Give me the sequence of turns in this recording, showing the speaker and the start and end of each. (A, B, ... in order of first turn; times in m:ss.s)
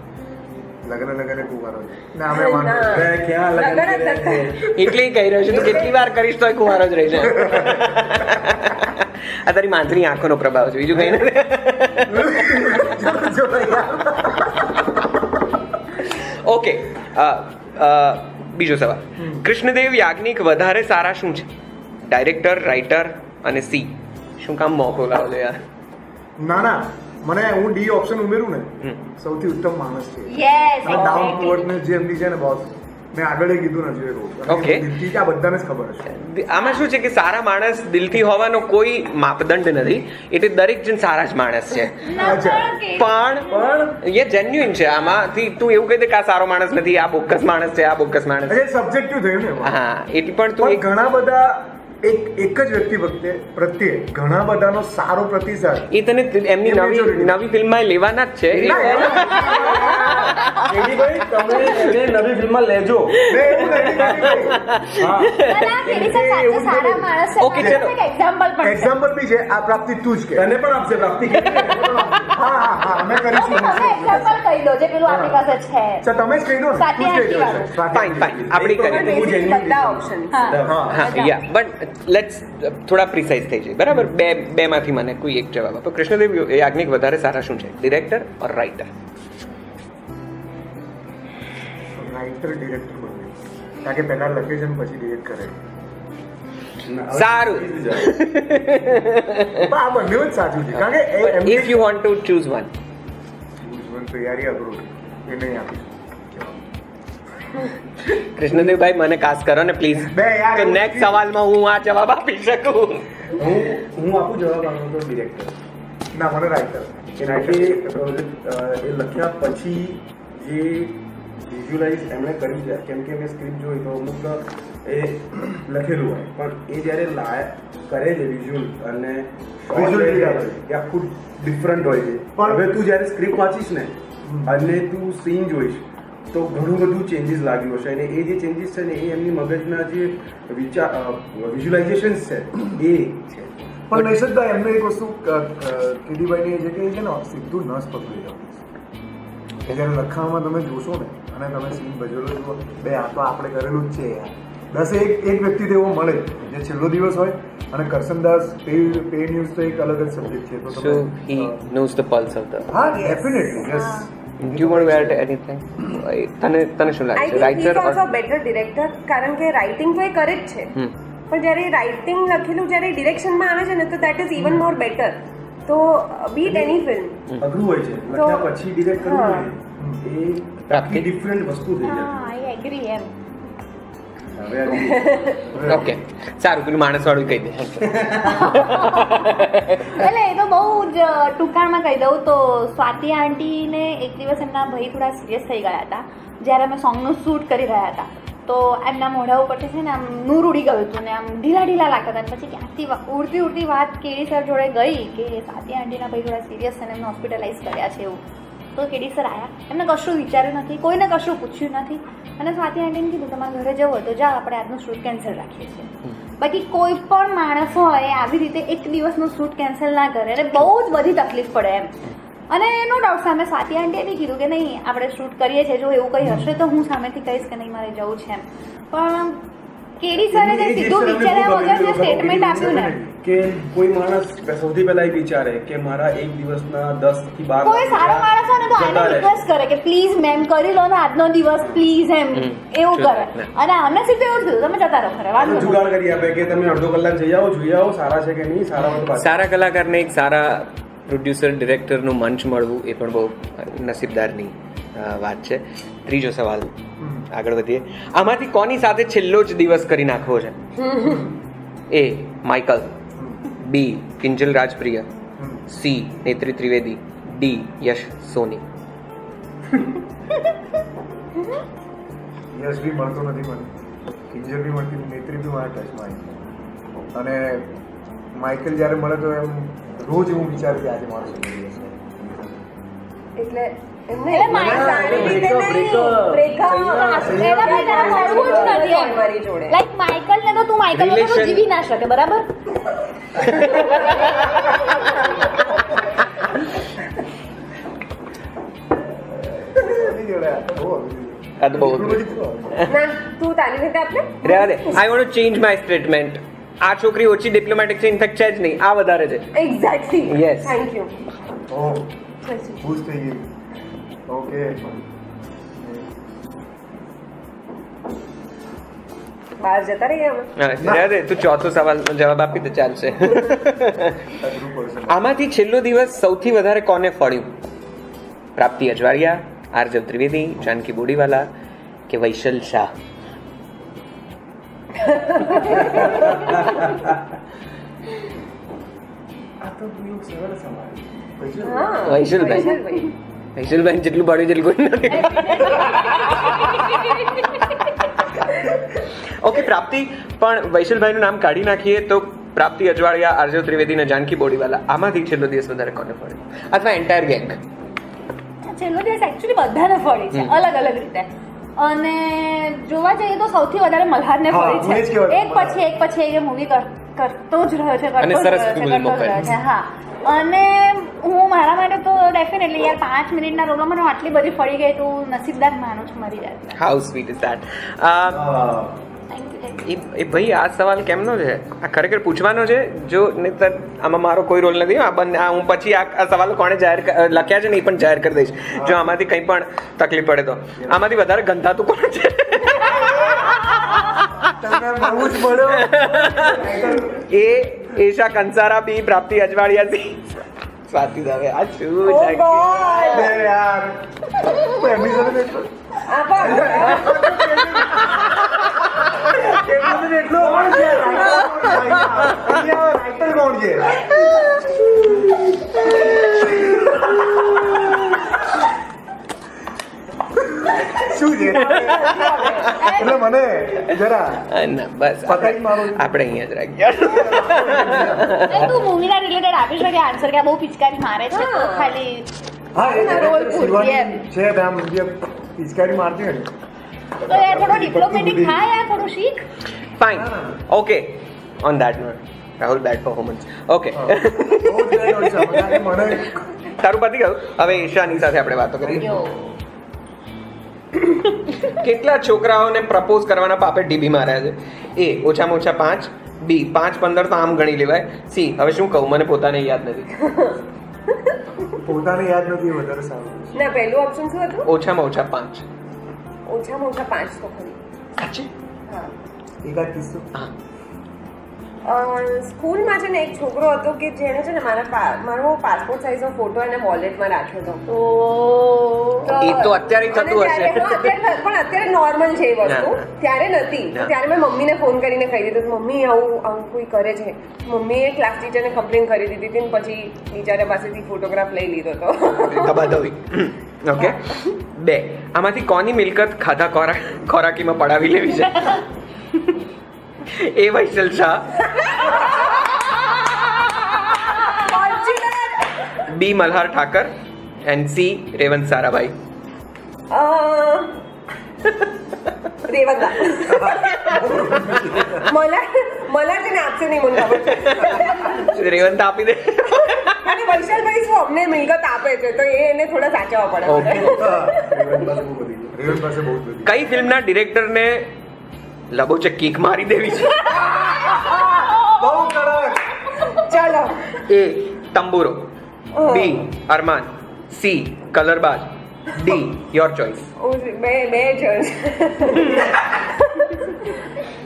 0:00.8-0:03.1 A
0:02.3-0:04.6 B
0:02.9-0:04.7 C
0:04.7-0:12.8 D
0:05.5-0:05.9 B
0:07.3-0:07.8 A
0:12.1-0:14.7 A
0:16.0-0:21.5 D
0:19.2-0:19.4 A
0:22.0-0:25.6 D
0:26.4-0:36.2 A
0:30.3-0:31.7 E
0:34.5-0:35.0 D
0:36.1-0:42.3 D
0:36.6-0:36.8 E
0:42.0-0:43.7 E
0:42.2-0:42.8 A
0:42.9-0:43.4 D
0:43.5-0:44.0 C
0:44.0-0:48.6 D
0:48.5-0:49.7 A
0:49.6-0:50.8 D
0:50.6-0:55.9 A
0:55.9-1:00.7 D
0:56.6-0:57.4 A
0:58.5-1:04.4 C
0:58.6-1:00.3 A
1:03.3-1:04.6 A
1:03.3-1:05.6 D
1:05.0-1:07.1 C
1:05.4-1:08.9 E
1:07.4-1:07.9 D
1:07.6-1:07.8 A
1:08.6-1:10.5 A
1:10.4-1:12.2 C
1:11.4-1:12.2 D
1:11.7-1:14.3 A
1:13.3-1:16.0 E
1:15.0-1:15.4 A
1:16.0-1:18.4 A
1:16.7-1:17.7 E
1:17.2-1:21.1 C
1:17.9-1:19.2 D
1:18.7-1:20.7 B
1:20.3-1:21.4 E
1:20.6-1:21.0 A
1:20.9-1:28.9 D
1:32.0-1:35.7 A
1:36.8-1:38.2 C
1:37.1-1:39.7 D
1:39.6-1:41.8 A
1:40.7-1:42.7 D
1:43.6-1:46.6 A
1:48.2-1:53.0 D
1:50.0-1:51.1 A
1:53.3-1:55.5 C
1:56.1-1:58.0 A
1:57.2-2:13.9 C
2:09.7-2:10.5 A
2:12.4-2:12.7 A
2:14.2-2:14.5 A
2:14.4-2:23.5 C
2:23.9-2:28.6 A
2:29.7-2:41.6 A
2:40.7-2:42.7 D
2:42.7-2:45.2 A
2:42.9-2:43.7 B
2:43.7-2:44.1 E
2:44.4-2:48.0 D
2:47.1-2:50.7 B
2:51.3-2:57.2 B
2:57.4-3:02.2 C
2:58.1-2:59.5 B
3:00.7-3:01.1 D
3:01.8-3:03.1 E
3:04.3-3:05.7 C
3:04.7-3:05.4 B
3:05.5-3:05.9 A
3:05.6-3:10.0 D
3:07.9-3:08.4 C
3:08.3-3:09.3 E
3:09.9-3:28.2 E
3:28.8-3:41.9 E
3:42.5-3:49.4 E
3:50.0-3:53.0 E
3:50.3-3:59.3 C
3:52.4-3:53.2 A
3:57.6-4:05.9 E
4:02.4-4:03.5 D
4:05.4-4:09.4 C
4:08.8-4:16.7 D
4:17.0-4:17.2 A
4:17.3-4:20.6 D
4:20.8-4:21.3 B
4:21.0-4:21.3 A
4:21.9-4:22.9 D
4:23.6-4:25.1 D
4:25.4-4:25.6 A
4:25.7-4:28.6 D
4:32.5-4:33.7 A
4:34.3-4:36.4 A
4:37.1-4:37.7 A
4:38.3-4:42.6 A
4:43.4-4:49.7 B
4:44.3-4:45.7 E
4:44.5-4:45.2 A
4:44.5-4:48.8 C
4:46.3-4:52.5 E
4:50.9-4:51.6 D
4:53.6-4:54.3 E
4:59.4-5:02.9 A
5:01.6-5:03.0 D
5:02.9-5:05.0 B
5:04.4-5:09.5 D
5:09.5-5:11.1 B
5:10.2-5:10.8 D
5:11.7-5:12.1 A
5:12.4-5:12.8 B
5:12.8-5:13.5 A
5:14.3-5:14.9 A
5:15.8-5:16.1 A
5:19.6-5:20.5 B
5:20.6-5:24.2 D
5:24.4-5:25.2 A
5:25.1-5:27.6 D
5:28.6-5:31.5 D
5:32.1-5:32.9 D
5:34.9-5:36.2 B
5:35.9-5:37.2 C
5:39.6-5:41.1 C
5:41.4-5:42.2 A
5:41.6-5:43.1 B
5:42.0-5:46.8 D
5:45.1-5:47.7 E
5:49.2-5:57.6 D
5:58.6-6:16.8 E
6:04.5-6:05.8 A
6:08.2-6:09.5 D
6:16.8-6:18.4 D
6:18.4-6:18.9 C
6:19.3-6:19.9 E
6:19.8-6:34.5 D
6:28.7-6:29.2 A
6:34.5-6:37.2 A
6:35.2-6:36.7 D
6:37.3-6:43.3 D
6:42.0-6:43.3 B
6:43.1-6:45.7 A
6:46.0-6:47.6 B
6:46.3-6:54.0 A
6:49.9-6:51.0 C
6:50.6-6:51.5 B
6:56.1-6:56.7 D
7:00.4-7:04.5 A
7:01.4-7:03.1 B
7:02.7-7:03.2 E
7:04.5-7:08.7 D
7:05.2-7:06.1 A
7:07.0-7:08.6 A
7:08.5-7:12.3 E
7:11.3-7:12.0 B
7:12.7-7:16.5 A
7:12.8-7:14.2 E
7:12.8-7:13.8 B
7:17.2-7:19.4 E
7:17.3-7:18.6 A
7:20.0-7:26.1 D
7:20.1-7:20.6 A
7:23.9-7:26.4 A
7:26.8-7:29.2 D
7:28.8-7:29.2 A
7:29.0-7:29.3 E
7:31.6-7:40.1 D
7:40.2-7:40.6 B
7:41.1-7:41.8 B
7:41.8-7:43.7 A
7:43.5-7:44.7 B
7:44.6-7:45.6 D
7:46.5-7:47.8 B
7:48.2-7:48.5 D
7:48.9-7:49.1 B
7:49.6-7:50.3 A
7:51.8-7:57.8 B
7:57.9-7:59.7 E
7:59.2-8:13.0 B
7:59.4-8:01.2 D
8:02.6-8:03.0 D
8:12.4-8:18.8 D
8:20.2-8:22.2 D
8:22.0-8:22.6 B
8:24.5-8:26.0 B
8:26.1-8:29.1 D
8:30.1-8:31.0 B
8:32.6-8:38.6 B
8:33.5-8:35.3 A
8:37.6-8:40.4 D
8:39.8-8:45.1 B
8:43.6-8:44.2 D
8:44.1-8:44.8 A
8:44.7-8:45.8 C
8:45.7-8:46.8 A
8:46.6-8:48.1 D
8:48.9-8:50.6 D
8:50.5-8:52.0 E
8:50.9-8:52.9 A
8:53.3-8:54.2 B
8:54.2-9:00.3 D
8:56.0-8:56.5 B
9:00.4-9:04.0 B